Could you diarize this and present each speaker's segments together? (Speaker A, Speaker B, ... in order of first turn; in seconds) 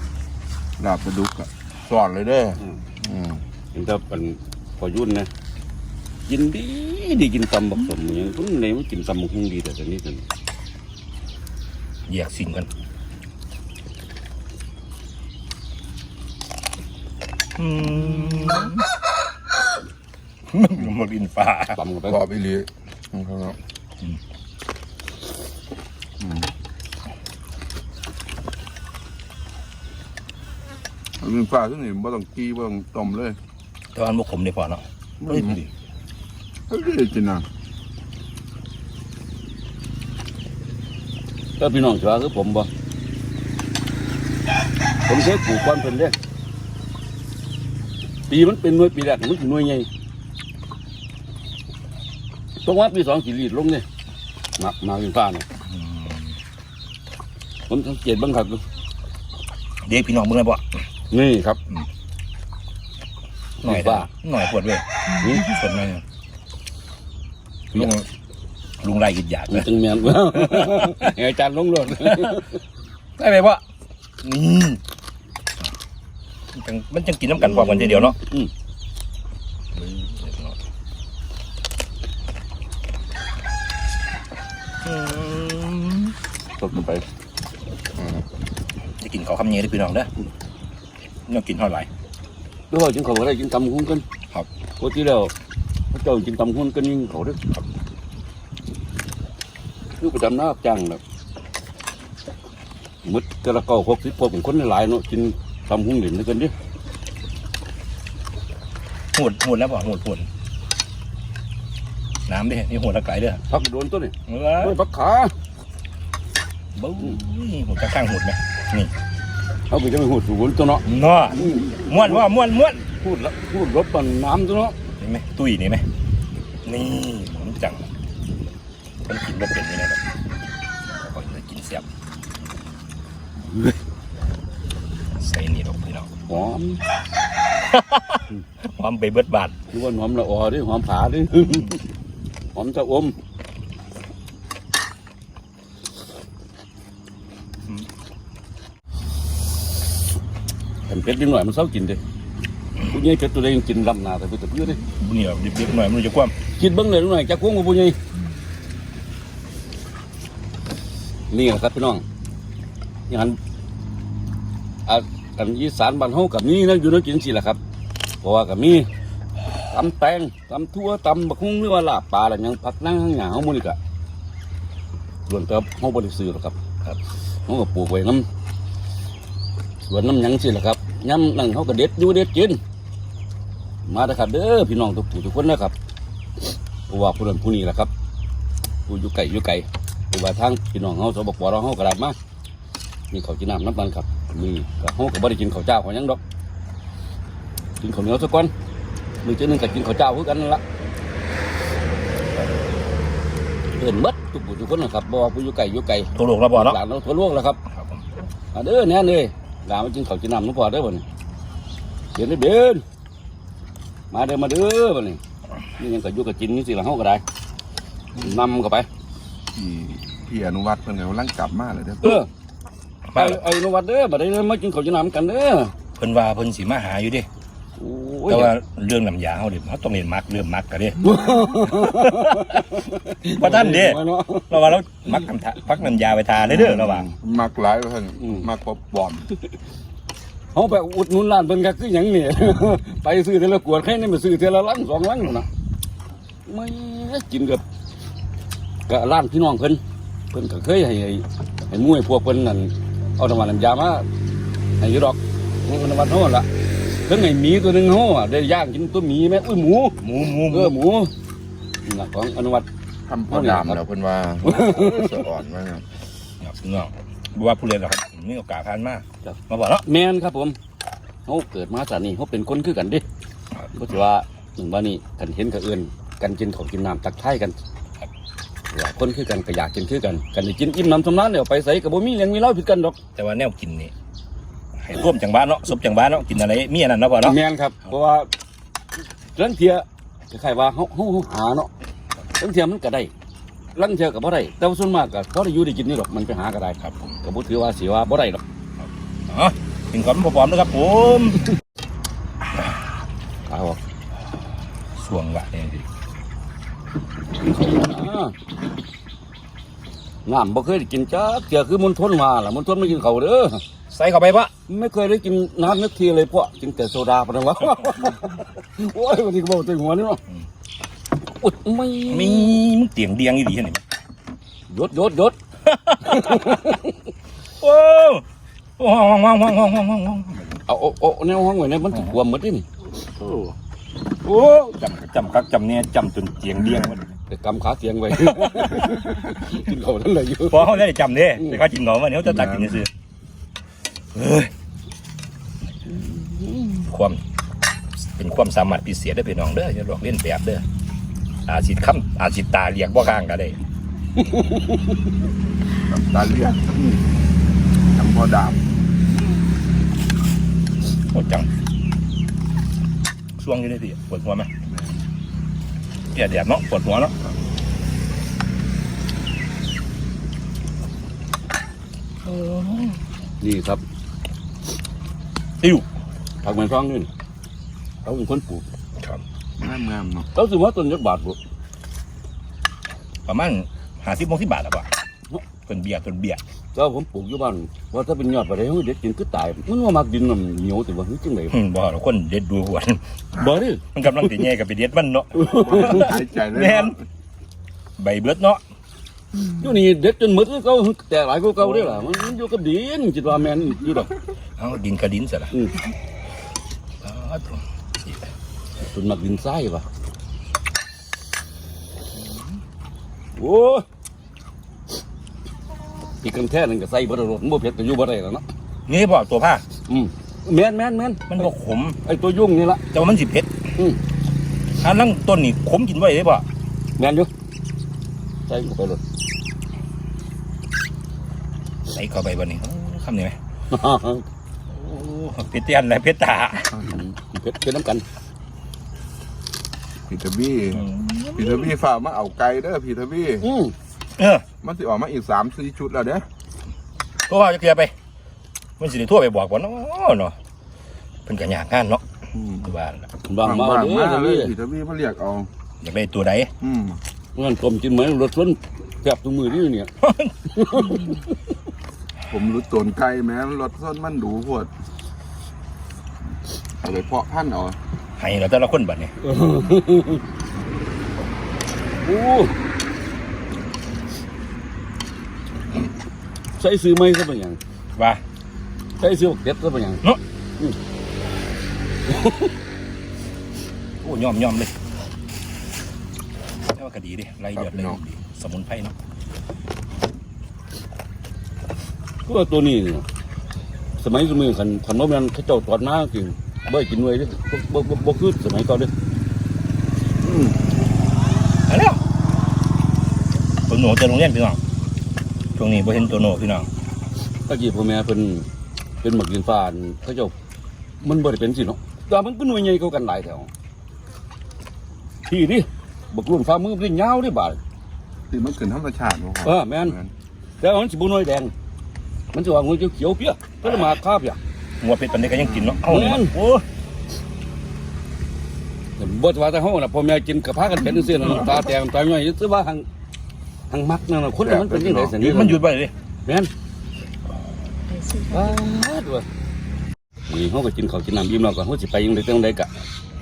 Speaker A: 0.8-3.4, 22.1-23.6, 26.2-26.5, 31.2-33.4, 35.2-35.6, 36.7-37.5, 219.6-222.2, 236.4-239.3, 263.1-265.8, 355.9-356.9, 357.9-358.6, 364.7-364.9, 379.6-380.3, 395.5-397.0, 436.7-437.1, 440.1-443.5, 444.6-446.2, 452.3-452.7, 453.4-455.5, 456.6-457.0, 462.3-464.7, 466.8-467.8, 487.6-488.0, 500.2-500.5, 518.3-520.1, 525.4-525.8, 534.4-535.2
Speaker B: 3.7-5.3, 6.3-10.2, 21.7-22.2, 41.6-42.7, 45.1-46.1, 48.3-49.9, 52.6-53.8, 54.6-55.5, 57.7-58.6, 61.1-61.6, 63.6-64.1, 65.1-65.5, 69.5-72.6, 77.4-78.5, 86.6-87.0, 92.7-94.0, 94.8-95.3, 95.9-97.4, 100.0-101.0, 103.0-106.5, 113.5-115.3, 119.7-122.2, 122.8-124.8, 136.3-136.8, 139.7-141.8, 142.5-143.2, 150.9-152.0, 152.8-154.8, 156.6-158.0, 161.3-162.0, 163.1-163.4, 164.8-167.6, 168.2-168.9, 169.7-173.8, 175.3-176.6, 177.4-178.2, 179.9-182.6, 183.8-185.7, 186.9-187.9, 188.9-192.2, 193.1-196.2, 197.8-198.5, 199.2-200.6, 203.8-207.6, 208.5-211.0, 212.1-212.8, 214.1-215.2, 215.8-217.2, 218.2-218.9, 222.0-222.3, 223.1-225.7, 227.8-228.5, 231.0-234.8, 238.2-238.4, 240.5-245.5, 246.4-247.6, 248.9-254.1, 254.8-261.1, 261.9-262.6, 263.3-263.8, 264.4-265.1, 269.2-270.6, 271.2-273.0, 273.7-277.6, 278.7-283.0, 287.2-288.3, 289.3-291.7, 292.4-293.1, 293.7-298.4, 303.5-303.8, 307.4-308.4, 310.2-313.6, 314.7-320.2, 321.4-322.6, 324.7-325.4, 326.0-327.0, 330.7-332.6, 337.3-340.8, 342.3-342.7, 345.9-346.8, 354.3-354.6, 373.4-373.8, 376.4-377.1, 378.0-378.6, 380.3-381.4, 386.7-391.6, 395.4-396.1, 399.6-404.1, 408.8-409.8, 413.4-413.9, 416.2-418.4, 419.9-421.4, 422.0-422.8, 427.0-427.3, 428.5-429.0, 433.7-434.2, 437.3-438.0, 443.4-443.7, 453.2-454.5, 457.3-459.9, 460.5-461.3, 469.2-470.2, 472.0-472.5, 476.6-477.6, 479.0-480.0, 482.1-482.5, 492.2-493.1, 494.0-498.9, 507.5-508.5, 509.0-510.3, 511.0-513.5, 515.3-517.6, 519.4-520.0, 520.6-521.5, 522.3-524.4, 525.9-526.4, 529.0-532.9, 533.7-535.6, 538.0-539.2, 540.3-542.7
Speaker C: 12.1-12.7, 17.6-18.9, 20.5-21.8, 33.9-35.7, 55.6-56.4, 59.8-60.6, 63.6-66.0, 67.7-68.1, 68.8-71.1, 72.0-72.4, 73.2-73.6, 74.2-74.8, 76.5-78.2, 79.7-80.6, 84.8-86.1, 89.0-90.1, 91.3-91.9, 109.1-110.3, 112.3-113.4, 114.3-114.8, 116.8-118.9, 120.8-122.8, 125.0-125.8, 126.6-127.9, 129.0-130.0, 130.8-131.8, 135.2-136.1, 137.7-139.6, 154.9-156.3, 206.1-206.8, 207.7-208.0, 223.1-223.4, 225.9-227.3, 228.3-232.7, 233.2-237.1, 260.0-260.8, 266.4-269.8, 283.1-283.9, 284.8-287.4, 296.8-297.2, 298.8-301.5, 304.9-305.8, 313.9-314.5, 322.1-323.8, 325.6-326.7, 327.6-328.2, 328.8-330.6, 333.2-333.6, 334.2-337.1, 338.4-339.0, 340.4-342.9, 344.1-344.5, 346.8-347.2, 348.0-350.6, 351.4-353.6, 361.1-361.5, 363.4-364.5, 366.1-367.1, 372.2-373.0, 375.6-375.9, 383.2-384.9, 385.6-386.4, 391.5-396.9, 398.0-398.6, 404.6-405.5, 407.0-408.3, 418.9-419.6, 421.3-422.0, 422.9-423.5, 424.8-426.4, 431.9-433.4, 434.7-436.7, 440.7-441.7, 444.2-444.4, 447.3-447.9, 448.8-450.3, 451.2-452.0, 452.6-453.1, 455.8-456.5, 460.0-461.1, 468.2-469.1, 484.0-484.7, 486.7-488.9, 501.7-502.0, 503.7-504.6, 505.6-506.7, 523.6-524.0, 524.8-526.6, 535.2-535.9